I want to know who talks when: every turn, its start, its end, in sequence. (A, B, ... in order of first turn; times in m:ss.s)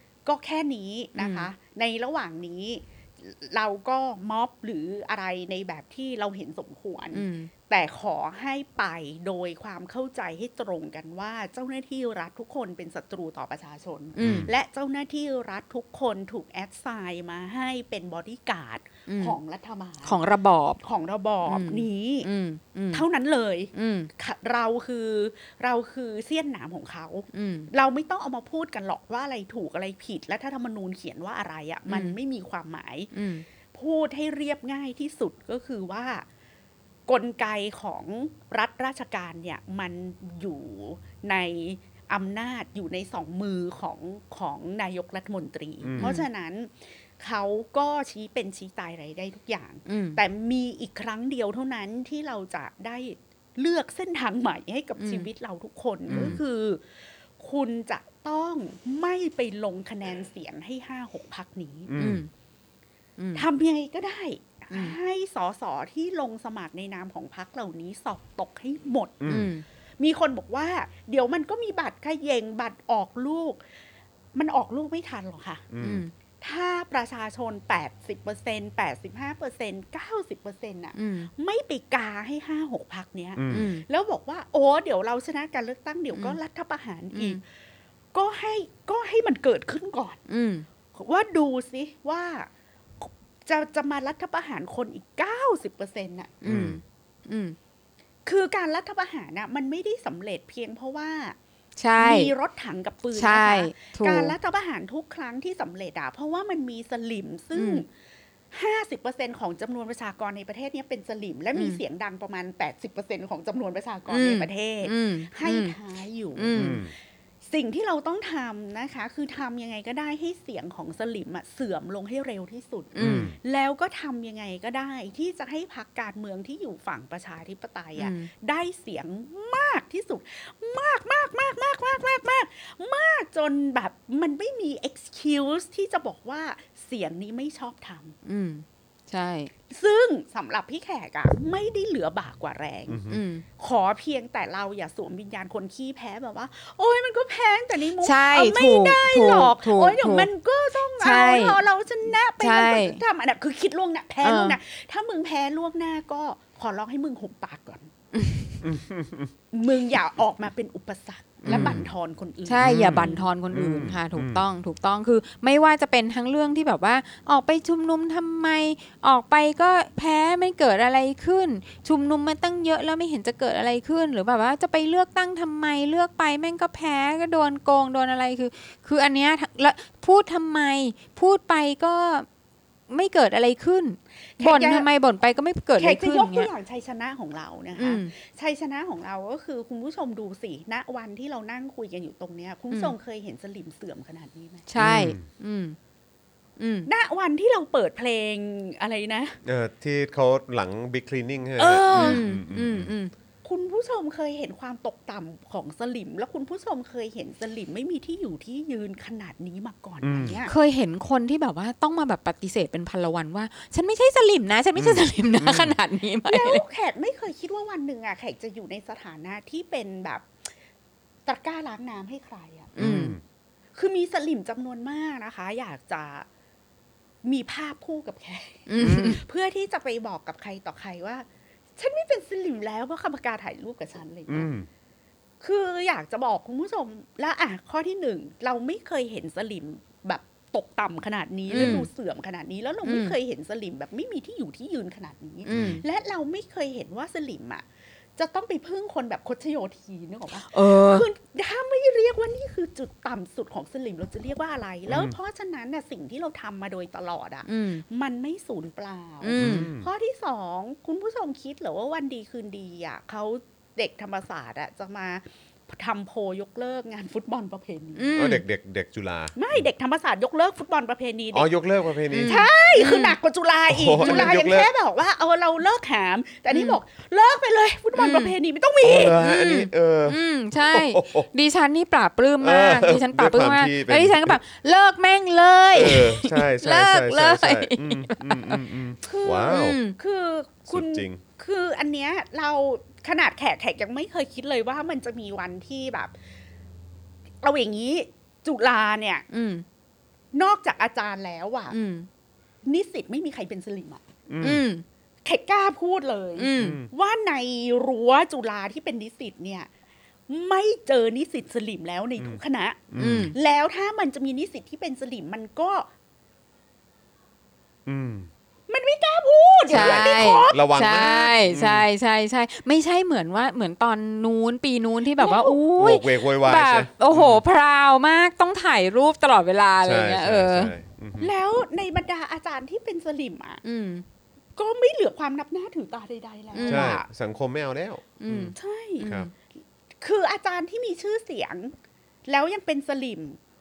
0:00.2-0:20.2 A
0:01.2-0:01.5 B
0:07.1-0:07.5 B
0:14.1-0:14.5 B
0:14.2-0:14.5 C
0:19.1-0:19.4 B
0:20.0-0:20.8 B
0:20.8-0:22.3 A
0:21.4-0:23.0 B
0:22.9-0:33.1 A
0:23.7-0:24.1 B
0:27.3-0:27.7 B
0:31.9-0:32.2 B
0:33.1-0:33.4 B
0:33.7-0:36.2 A
0:37.1-1:01.9 A
0:45.8-0:46.2 C
0:46.0-0:46.2 B
0:49.9-0:50.2 B
0:55.0-0:55.3 B
0:56.1-0:56.4 C
0:56.1-0:56.4 B
1:01.9-1:02.2 C
1:02.0-1:02.3 B
1:03.2-1:03.4 B
1:03.3-1:09.3 A
1:04.7-1:05.0 B
1:09.2-1:09.5 C
1:09.3-1:09.6 B
1:10.0-1:13.6 A
1:14.3-1:15.6 A
1:15.7-1:16.0 C
1:15.8-1:16.1 B
1:16.4-1:27.4 A
1:21.0-1:21.3 B
1:23.4-1:23.7 C
1:23.5-1:23.8 B
1:27.1-1:27.4 B
1:28.1-1:30.2 A
1:30.3-1:30.6 B
1:30.9-1:32.5 A
1:33.0-1:36.4 A
1:36.4-1:37.6 B
1:36.4-1:36.8 C
1:38.2-1:41.4 A
1:41.8-1:42.3 B
1:42.0-1:47.9 A
1:43.1-1:44.3 B
1:47.5-1:47.8 B
1:48.5-1:56.8 A
1:51.5-1:51.8 B
1:54.1-1:55.7 B
1:56.3-1:56.8 B
1:56.5-1:56.9 C
1:57.4-2:18.2 A
2:02.9-2:03.3 B
2:03.0-2:03.4 C
2:08.0-2:08.3 B
2:18.2-2:19.5 B
2:19.7-2:23.0 A
2:22.9-2:23.2 C
2:23.1-2:23.4 B
2:23.6-2:37.9 A
2:28.0-2:30.3 B
2:31.0-2:31.6 B
2:32.4-2:33.0 B
2:34.2-2:34.6 B
2:38.1-2:38.6 B
2:38.6-2:39.3 C
2:39.5-2:43.3 A
2:41.4-2:41.8 B
2:41.4-2:41.9 C
2:42.4-3:02.2 B
2:42.6-2:44.4 C
3:02.9-3:06.5 B
3:04.4-3:04.9 A
3:05.8-3:14.7 A
3:07.8-3:08.1 B
3:14.7-3:15.8 B
3:14.8-3:15.2 C
3:16.6-3:16.9 B
3:16.9-3:19.4 A
3:19.4-3:22.9 C
3:21.6-3:23.1 B
3:21.9-3:22.2 A
3:23.4-3:30.5 A
3:30.0-3:30.4 C
3:30.4-3:36.6 B
3:34.8-3:35.7 C
3:36.2-3:40.3 A
3:41.2-3:42.7 A
3:42.8-3:43.2 B
3:42.8-3:43.2 C
3:43.7-3:46.3 A
3:47.2-3:54.5 A
3:48.7-3:49.2 B
3:48.8-3:49.2 C
3:54.3-3:54.7 C
3:55.4-4:28.1 A
4:01.5-4:01.9 B
4:02.8-4:03.1 B
4:05.4-4:05.8 B
4:05.5-4:05.8 C
4:10.4-4:11.0 B
4:14.9-4:15.1 C
4:17.4-4:17.8 B
4:19.2-4:19.7 B
4:19.4-4:19.9 C
4:28.0-4:28.4 B
4:28.1-4:29.6 C
4:29.4-4:31.5 A
4:31.3-4:32.5 C
4:32.1-4:33.2 B
4:32.2-4:39.2 A
4:33.7-4:34.7 C
4:34.0-4:34.3 B
4:36.5-4:36.8 B
4:38.0-4:38.3 B
4:38.8-4:41.3 C
4:39.2-4:48.6 B
4:42.4-4:44.4 C
4:45.7-4:49.8 C
4:49.0-4:56.1 A
4:49.5-4:50.0 B
4:50.7-4:51.2 C
4:57.4-4:59.2 A
4:59.3-4:59.6 B
5:00.3-5:01.8 A
5:01.7-5:02.1 B
5:02.6-5:04.0 A
5:04.3-5:04.6 C
5:04.4-5:04.8 B
5:05.2-5:09.7 A
5:06.4-5:06.8 B
5:06.6-5:06.9 C
5:10.3-5:15.9 A
5:12.9-5:13.3 C
5:13.0-5:13.3 B
5:17.8-5:18.3 C
5:18.7-5:20.6 A
5:19.7-5:30.7 B
5:19.7-5:21.8 C
5:25.2-5:25.6 A
5:25.8-5:27.4 C
5:29.8-5:31.3 C
5:31.2-5:33.6 A
5:33.6-5:34.0 B
5:34.6-5:37.0 A
5:36.5-5:36.9 B
5:36.6-5:39.3 C
5:38.2-5:39.3 B
5:38.6-5:39.1 A
5:40.0-5:41.7 A
5:42.2-5:43.4 A